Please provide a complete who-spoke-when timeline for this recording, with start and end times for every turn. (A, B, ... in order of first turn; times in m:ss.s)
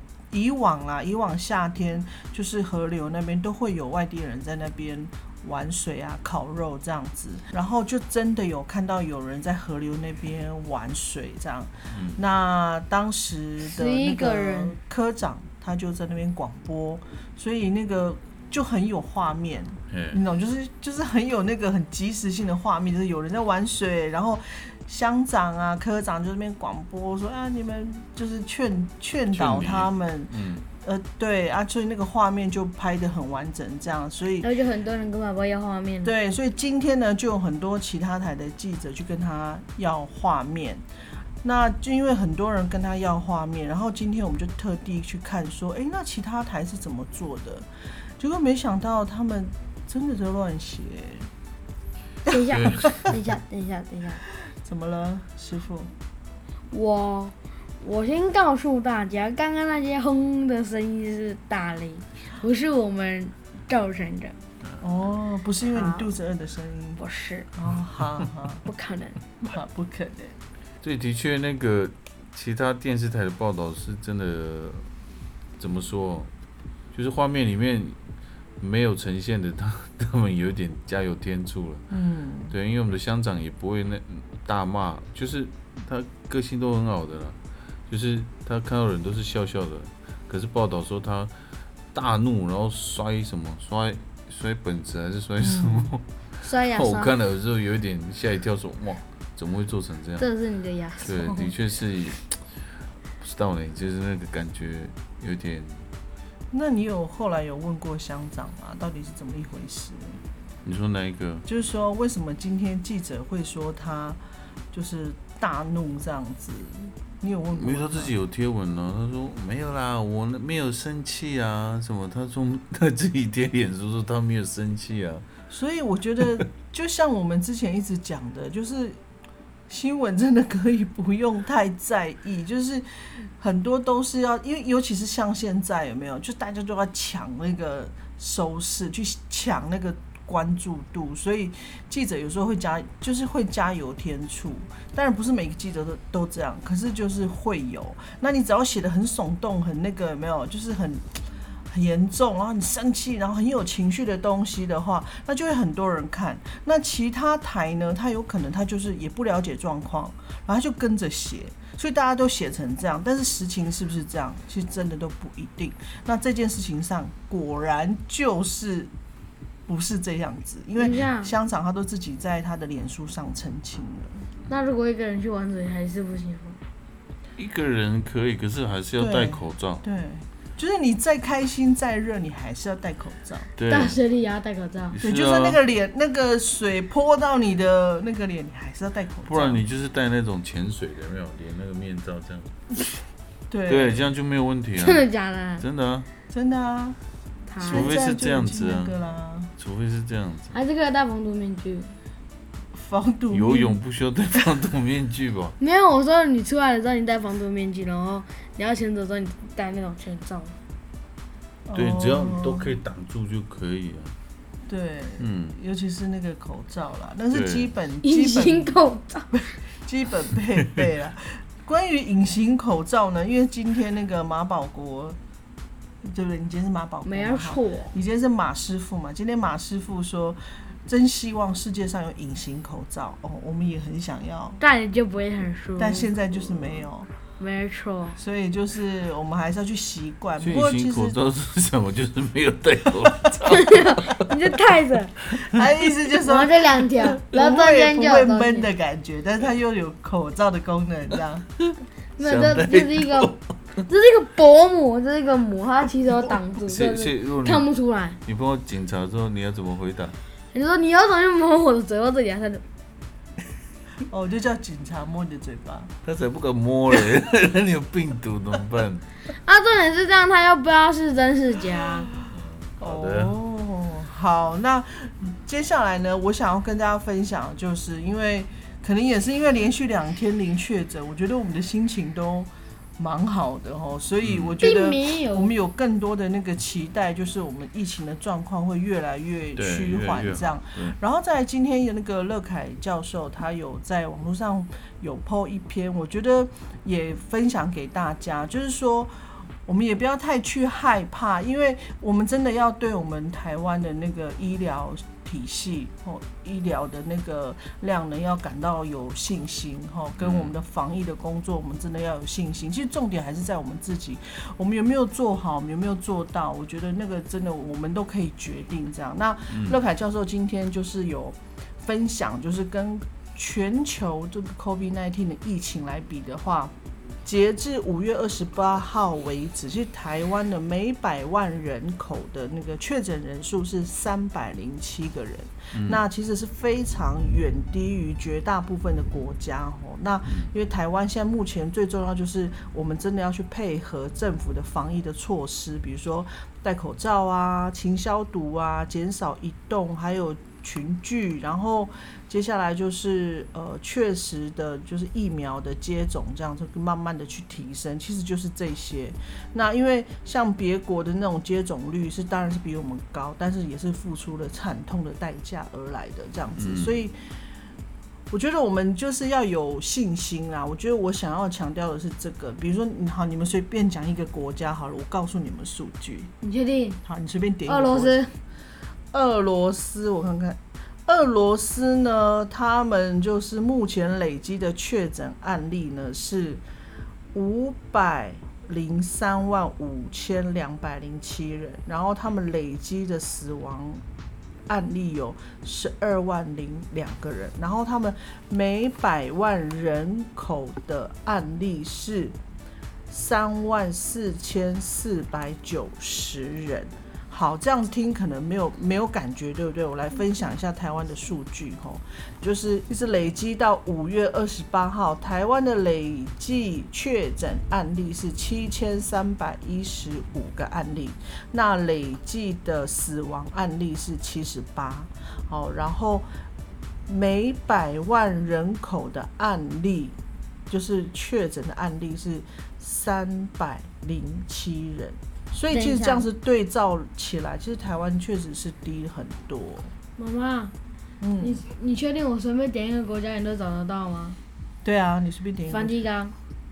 0:00.3-0:34.5 A
0:11.9-0:12.2 B
0:13.6-0:14.8 C
0:19.9-0:20.2 B
0:29.3-0:30.7 B
0:34.4-0:36.1 C
0:36.0-0:40.8 A
0:41.4-0:51.3 A
0:52.3-0:54.2 C
0:52.5-0:53.0 B
0:54.4-0:55.9 A
0:56.7-1:04.4 C
1:04.8-1:07.0 A
1:05.7-1:06.1 C
1:07.0-1:07.5 C
1:07.5-1:08.6 A
1:08.6-1:09.2 C
1:09.4-1:10.4 A
1:10.8-1:14.9 B
1:15.6-1:16.3 B
1:16.9-1:18.0 B
1:18.6-1:21.8 B
1:21.9-1:22.5 A
1:22.5-1:36.0 B
1:35.4-1:35.9 A
1:36.4-1:37.1 C
1:36.6-1:40.2 B
1:40.2-1:41.3 C
1:41.0-1:42.6 B
1:43.2-1:45.9 B
1:46.5-1:50.2 A
1:50.6-1:51.4 B
1:51.4-1:54.2 A
1:54.7-1:58.1 A
1:57.5-2:05.2 B
2:05.5-2:09.0 A
2:09.7-2:48.9 A
2:49.7-2:54.3 A
2:50.8-2:51.3 C
2:54.5-2:56.6 C
2:57.4-2:59.8 B
2:59.0-3:03.5 A
3:03.6-3:04.0 B
3:03.7-3:05.0 C
3:04.9-3:05.6 B
3:05.0-3:09.6 A
3:09.2-3:12.6 B
3:13.5-3:14.0 A
3:13.7-3:15.0 B
3:14.8-3:15.6 C
3:15.6-3:16.1 B
3:16.3-3:17.0 A
3:17.5-3:17.9 C
3:17.6-3:19.5 A
3:17.7-3:19.0 B
3:19.6-3:20.5 B
3:20.5-3:21.9 C
3:22.7-3:23.8 A
3:23.3-3:25.6 B
3:25.6-3:30.6 C
3:31.7-3:32.7 A
3:31.7-3:34.2 B
3:34.7-3:38.8 A
3:35.2-3:35.6 B
3:37.3-3:37.7 B
3:38.0-3:39.4 C
3:39.3-3:45.2 A
3:46.0-3:54.6 A
3:47.0-3:47.9 C
3:54.6-3:56.2 C
3:55.8-3:57.1 A
3:57.4-3:58.2 C
3:58.2-4:01.2 A
4:00.4-4:04.2 B
4:03.5-4:05.2 C
4:05.3-4:11.5 A
4:06.2-4:08.7 C
4:12.2-4:13.3 C
4:12.2-4:13.4 B
4:13.8-4:18.2 C
4:16.6-4:17.7 B
4:18.2-4:20.2 B
4:20.5-4:22.6 C
4:24.0-4:25.9 A
4:26.0-4:29.1 B
4:29.3-4:32.1 C
4:32.3-4:33.4 B
4:32.8-5:26.7 A
4:44.2-4:44.6 B
4:44.6-4:45.5 C
4:49.6-4:51.0 B
5:10.2-5:10.5 B
5:19.5-5:19.8 B
5:27.2-6:07.2 A
5:35.7-5:36.0 B
5:40.3-5:40.5 B
6:06.6-6:07.1 B
6:08.3-6:16.3 A
6:16.4-6:17.0 C
6:17.0-6:18.2 A
6:17.6-6:18.3 C
6:19.1-6:26.6 A
6:27.3-6:34.0 A
6:34.7-6:42.4 A
6:43.1-7:06.4 A
7:07.1-7:10.2 A
7:10.7-7:19.9 A
7:15.7-7:16.2 C
7:20.2-7:20.7 C
7:21.2-7:21.6 A
7:21.4-7:24.4 C
7:24.8-7:26.0 A
7:25.7-7:26.3 C